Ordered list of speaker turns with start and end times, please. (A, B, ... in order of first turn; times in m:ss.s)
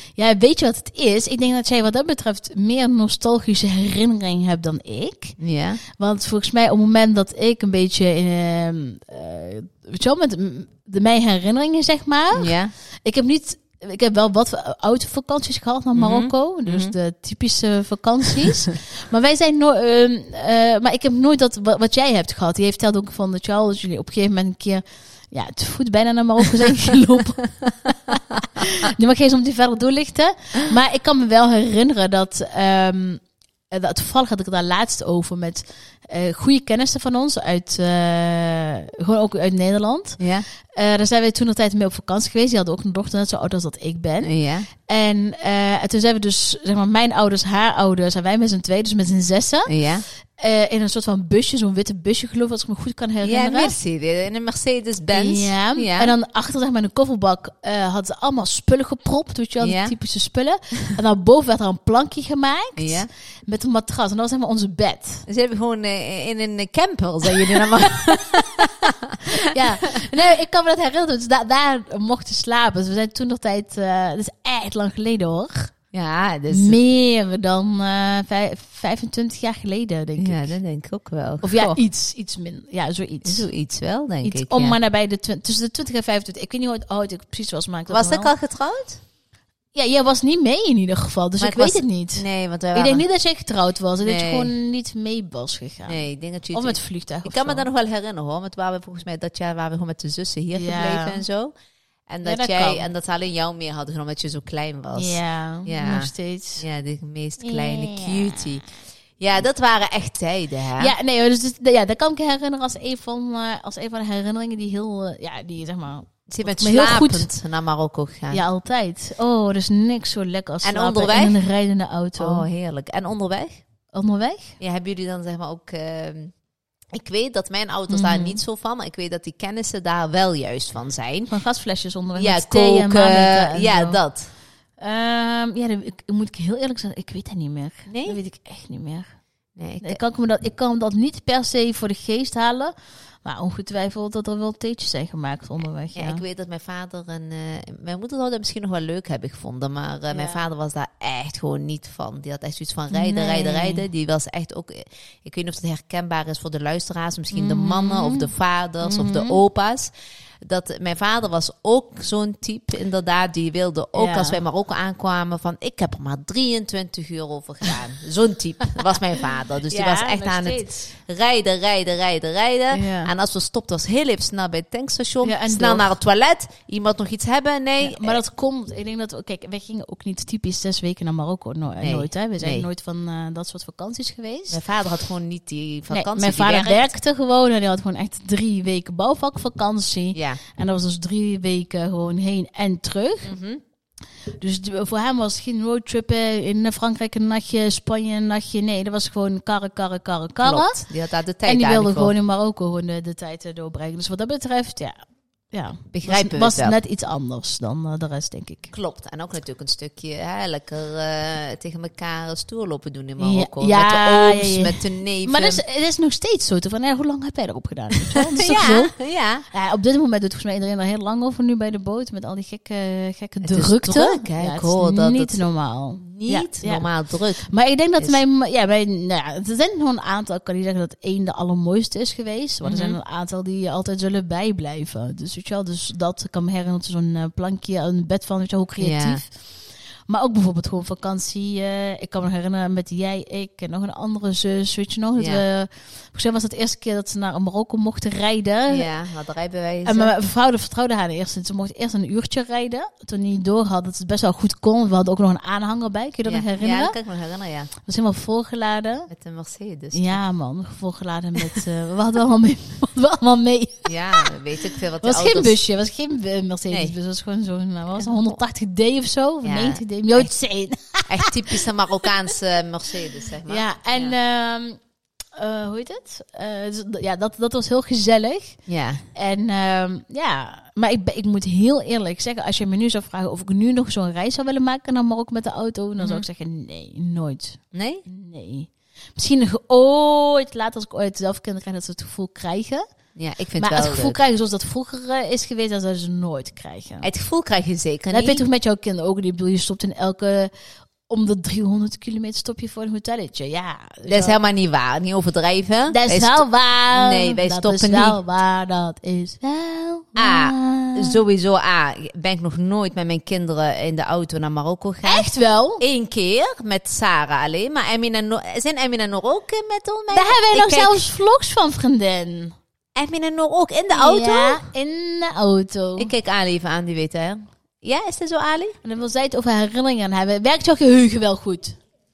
0:00.2-0:05.4 A
0:05.4-0:05.8 B
0:05.9-0:44.3 A
0:12.3-0:12.7 B
0:15.9-0:16.9 B
0:40.2-0:40.4 B
0:44.2-0:44.7 B
0:44.8-0:49.7 A
0:49.7-0:50.0 B
0:50.4-0:53.7 A
0:53.2-0:56.1 B
0:55.1-1:05.2 A
0:59.6-0:59.9 B
1:02.8-1:03.1 B
1:05.3-1:10.0 B
1:07.2-1:15.7 A
1:15.9-1:16.8 B
1:16.5-1:20.5 A
1:20.2-1:21.8 B
1:21.4-1:23.5 A
1:23.2-1:24.8 B
1:24.2-1:28.3 A
1:27.9-1:29.0 B
1:29.7-1:37.7 A
1:31.4-1:33.0 B
1:34.0-1:34.5 B
1:35.8-1:41.5 B
1:40.5-1:41.2 A
1:42.1-1:48.6 B
1:42.2-1:42.9 A
1:44.9-1:46.6 A
1:47.4-1:48.6 A
1:49.2-1:50.9 B
1:50.8-1:57.3 A
1:56.3-1:58.4 B
1:58.3-2:02.4 A
2:00.6-2:01.4 B
2:02.2-2:03.6 B
2:03.9-2:04.6 A
2:04.6-2:06.3 B
2:06.9-2:11.3 B
2:07.9-2:08.4 A
2:11.3-2:14.0 A
2:12.2-2:14.3 B
2:14.8-2:19.1 A
2:17.9-2:18.2 B
2:19.6-2:20.0 B
2:19.8-2:22.7 A
2:23.2-2:26.2 A
2:25.9-2:39.9 B
2:30.1-2:30.4 A
2:32.9-2:33.8 A
2:37.3-2:38.3 A
2:38.8-2:39.4 A
2:40.4-2:58.2 B
2:43.9-2:44.4 A
2:48.7-2:50.9 A
2:52.7-2:53.1 A
2:55.2-2:55.9 A
2:57.8-3:04.6 A
3:01.8-3:02.7 B
3:04.5-3:06.9 B
3:05.9-3:13.3 A
3:10.1-3:10.4 B
3:13.2-3:13.6 B
3:14.4-3:20.8 A
3:20.4-3:22.1 B
3:21.4-3:24.9 A
3:25.5-3:28.7 A
3:25.9-3:26.8 B
3:28.7-3:35.6 B
3:33.2-3:38.9 A
3:38.1-3:39.4 B
3:39.5-3:46.9 A
3:43.4-3:45.4 B
3:46.0-3:47.5 B
3:47.4-3:59.3 A
3:52.6-3:53.0 B
3:58.8-3:59.2 B
4:00.1-4:08.9 A
4:05.2-4:05.4 B
4:08.7-4:10.1 B
4:09.8-4:17.0 A
4:16.2-4:17.7 B
4:17.8-4:19.1 A
4:19.1-4:20.2 B
4:19.9-4:24.3 A
4:23.8-4:25.6 B
4:25.0-4:32.1 A
4:26.7-4:26.9 B
4:27.9-4:28.3 B
4:29.4-4:30.3 B
4:31.1-4:34.1 B
4:33.4-4:34.8 A
4:35.4-4:38.6 A
4:38.7-4:39.0 B
4:39.1-4:52.8 A
4:46.0-4:46.2 B
4:47.7-4:48.0 B
4:53.2-4:54.2 B
4:53.6-4:57.1 A
4:57.0-4:58.4 B
4:58.1-5:00.5 A
5:01.1-5:04.4 A
5:04.1-5:08.2 B
5:05.9-5:11.2 A
5:10.2-5:21.0 B
5:15.0-5:15.8 A
5:20.1-5:22.5 A
5:22.9-5:24.6 B
5:23.9-5:26.1 A
5:26.0-5:28.8 B
5:28.8-5:31.8 A